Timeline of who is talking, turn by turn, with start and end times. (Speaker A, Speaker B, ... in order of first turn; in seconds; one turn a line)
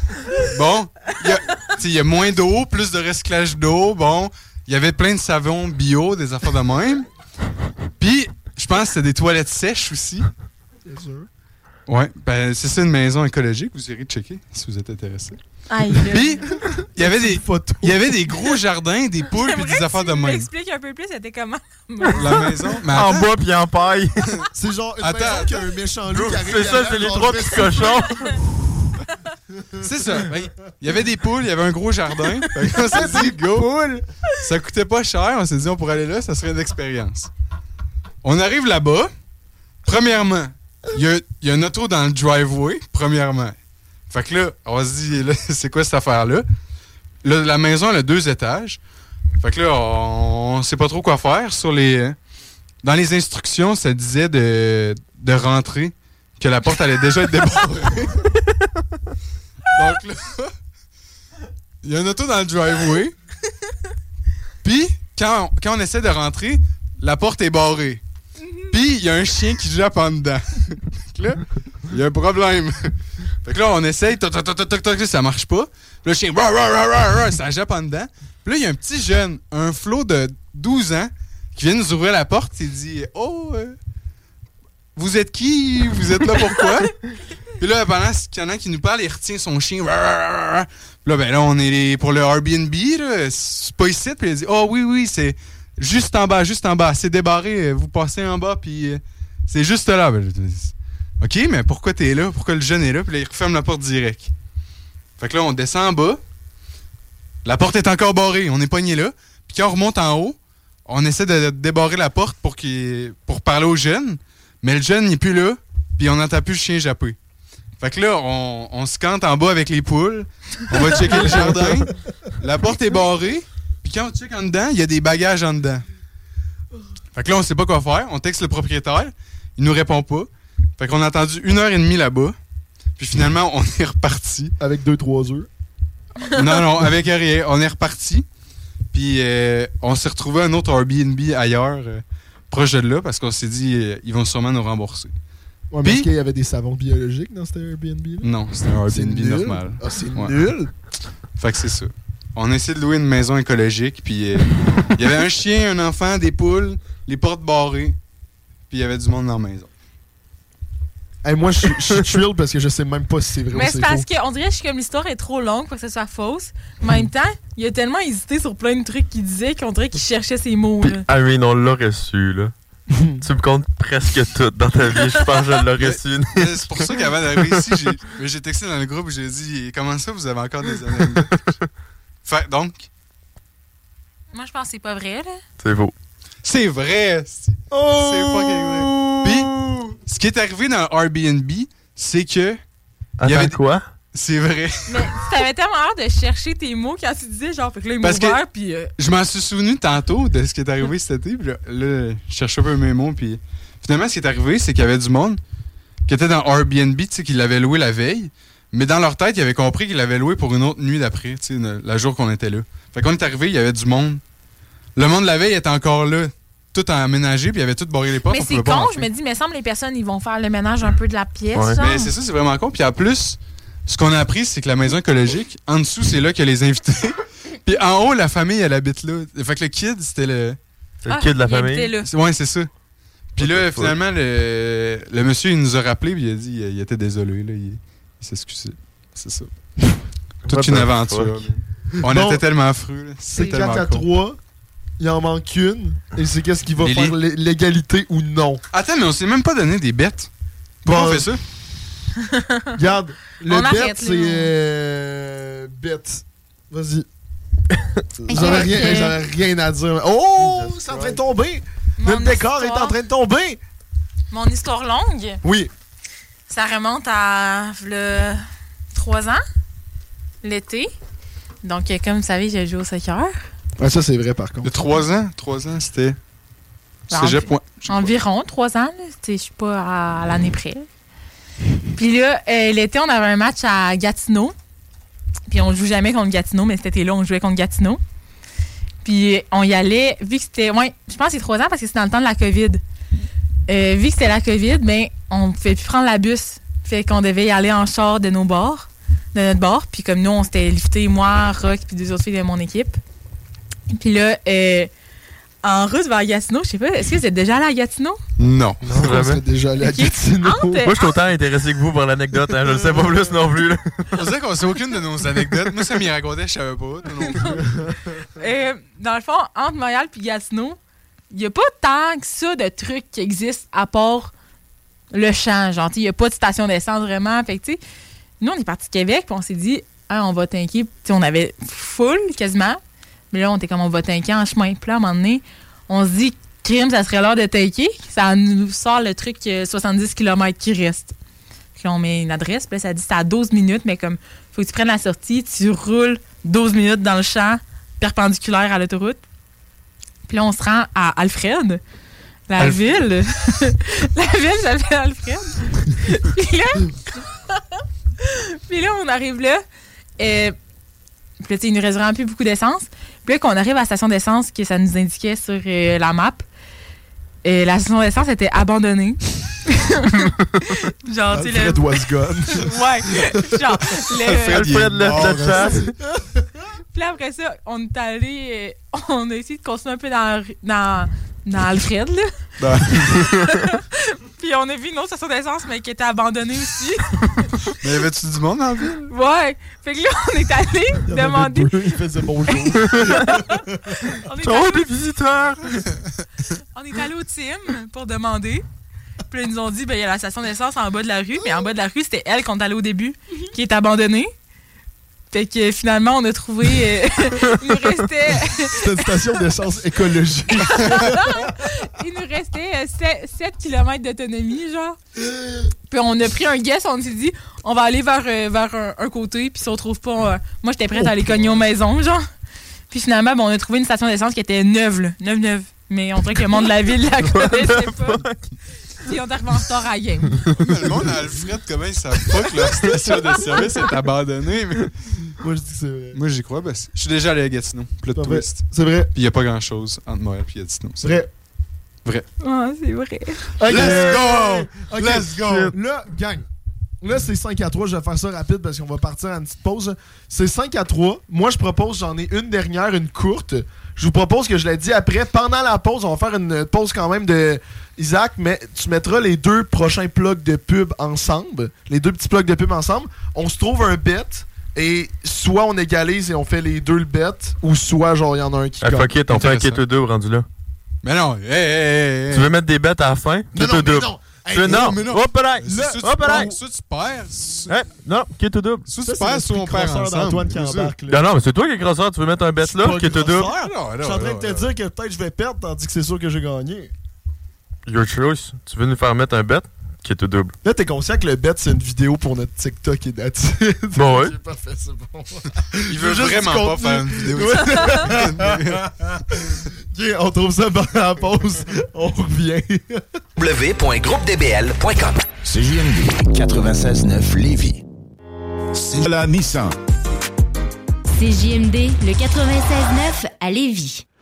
Speaker A: 0.4-7.1
Speaker A: 8.0-10.3
Speaker B: 10.8-11.3
Speaker A: 11.9-15.4
Speaker C: 15.7-16.4
Speaker A: 16.0-20.5
Speaker B: 16.5-18.2
Speaker C: 19.4-22.4
Speaker A: 22.1-23.3
Speaker D: 22.9-24.4
Speaker B: 24.5-28.1
Speaker A: 25.0-25.6
Speaker D: 26.1-28.4
Speaker B: 29.5-29.9
Speaker A: 29.8-33.7
Speaker B: 32.6-34.1
Speaker A: 34.4-37.3
Speaker A: 38.2-39.1
Speaker A: 39.9-43.5
Speaker A: 44.1-46.4
Speaker A: 47.2-48.8
Speaker A: 49.4-52.2
Speaker A: 52.8-58.3
Speaker A: 59.7-60.5
Speaker A: 61.8-63.1
Speaker A: 64.6-68.0
Speaker A: 68.7-72.9
Speaker A: 73.4-83.8
Speaker A: 85.0-87.0
Speaker A: 87.6-104.3
Speaker A: 105.2-106.2
Speaker A: 107.4-117.2
Speaker A: 117.8-125.8
Speaker B: 121.1-121.9
Speaker A: 127.1-132.4
Speaker A: 133.0-134.5
Speaker B: 134.6-135.5
Speaker A: 136.3-138.3
Speaker A: 138.9-145.1
Speaker B: 145.7-148.3
Speaker A: 145.8-146.1
Speaker A: 148.2-150.4
Speaker B: 148.9-150.7
Speaker A: 151.4-157.9
Speaker A: 158.7-159.7
Speaker B: 161.2-164.1
Speaker C: 163.5-171.0
Speaker D: 170.8-172.5
Speaker B: 172.9-173.2
Speaker D: 173.2-177.6
Speaker A: 175.8-181.5
Speaker A: 182.2-182.9
Speaker C: 184.3-185.4
Speaker D: 185.6-185.9
Speaker A: 186.4-189.5
Speaker B: 187.7-189.9
Speaker A: 190.0-192.6
Speaker D: 193.2-193.8
Speaker A: 193.2-193.6
Speaker A: 194.1-195.2
Speaker C: 194.9-198.9
Speaker A: 198.0-198.4
Speaker A: 199.0-205.4
Speaker A: 206.1-214.2
Speaker A: 214.9-219.1
Speaker C: 218.3-222.1
Speaker D: 221.5-221.8
Speaker A: 221.8-230.6
Speaker D: 231.0-231.9
Speaker C: 231.1-232.1
Speaker A: 232.0-232.7
Speaker A: 233.3-239.5
Speaker D: 233.4-233.9
Speaker D: 240.5-241.3
Speaker A: 240.5-244.1
Speaker B: 242.0-242.4
Speaker B: 243.3-244.4
Speaker B: 245.0-248.6
Speaker A: 246.8-247.2
Speaker A: 248.7-250.3
Speaker B: 250.8-251.4
Speaker A: 250.8-251.4
Speaker C: 252.2-252.8
Speaker B: 252.7-257.1
Speaker C: 253.5-254.5
Speaker B: 258.2-263.6
Speaker C: 258.3-259.2
Speaker D: 260.4-261.2
Speaker C: 262.0-262.9
Speaker C: 264.3-265.4
Speaker B: 265.4-265.7
Speaker C: 266.5-269.4
Speaker C: 270.4-270.9
Speaker C: 271.6-273.4
Speaker B: 273.8-274.8
Speaker A: 274.6-276.2
Speaker A: 277.1-278.1
Speaker C: 277.1-280.9
Speaker C: 281.9-284.5
Speaker C: 285.5-288.0
Speaker C: 289.0-292.8
Speaker C: 293.7-303.0
Speaker C: 303.9-304.9
Speaker C: 305.6-308.2
Speaker A: 308.4-308.8
Speaker D: 308.8-309.4
Speaker B: 308.9-310.9
Speaker C: 309.8-310.9
Speaker D: 310.8-314.2
Speaker A: 314.1-317.7
Speaker C: 317.2-317.6
Speaker B: 317.6-317.9
Speaker C: 318.3-320.8
Speaker C: 321.3-324.3
Speaker C: 325.1-327.8
Speaker C: 328.4-332.8
Speaker C: 333.3-341.1
Speaker C: 341.8-349.2
Speaker C: 350.3-351.8
Speaker C: 352.5-359.6
Speaker C: 360.2-360.6
Speaker C: 361.4-366.4
Speaker C: 367.4-371.9
Speaker B: 371.3-373.6
Speaker C: 372.5-374.8
Speaker A: 374.1-375.8
Speaker D: 374.3-375.9
Speaker B: 375.8-376.4
Speaker C: 376.9-382.3
Speaker A: 382.6-383.1
Speaker C: 383.1-387.2
Speaker D: 383.1-383.5
Speaker A: 387.8-389.1
Speaker C: 389.1-391.9
Speaker B: 391.1-394.0
Speaker C: 392.7-393.6
Speaker C: 394.1-394.9
Speaker D: 394.4-395.8
Speaker C: 396.7-398.6
Speaker C: 399.3-404.3
Speaker C: 405.3-409.2
Speaker B: 408.6-411.5
Speaker C: 410.7-415.0
Speaker B: 415.3-415.6
Speaker C: 415.9-422.2
Speaker B: 421.0-421.5
Speaker C: 422.9-428.2
Speaker D: 427.2-428.6
Speaker C: 429.0-430.4
Speaker A: 430.6-434.9
Speaker B: 435.4-436.2
Speaker A: 436.1-441.2
Speaker B: 438.1-439.1
Speaker B: 441.0-441.3
Speaker C: 442.4-443.5
Speaker B: 443.6-446.4
Speaker A: 443.7-445.7
Speaker D: 443.7-444.2
Speaker D: 445.4-445.7
Speaker B: 447.0-469.1
Speaker D: 468.8-470.5
Speaker A: 469.3-469.8
Speaker A: 471.0-472.5
Speaker D: 472.3-476.5
Speaker B: 473.5-476.6
Speaker A: 474.6-477.8
Speaker D: 477.7-478.9
Speaker A: 478.9-480.9
Speaker B: 479.0-481.3
Speaker D: 481.1-483.5
Speaker B: 482.6-486.9
Speaker A: 483.6-484.7
Speaker D: 487.9-490.5
Speaker B: 490.6-503.0
Speaker D: 493.9-494.3
Speaker A: 495.9-498.9
Speaker E: 503.4-507.8
Speaker E: 508.7-509.7
Speaker F: 511.1-514.0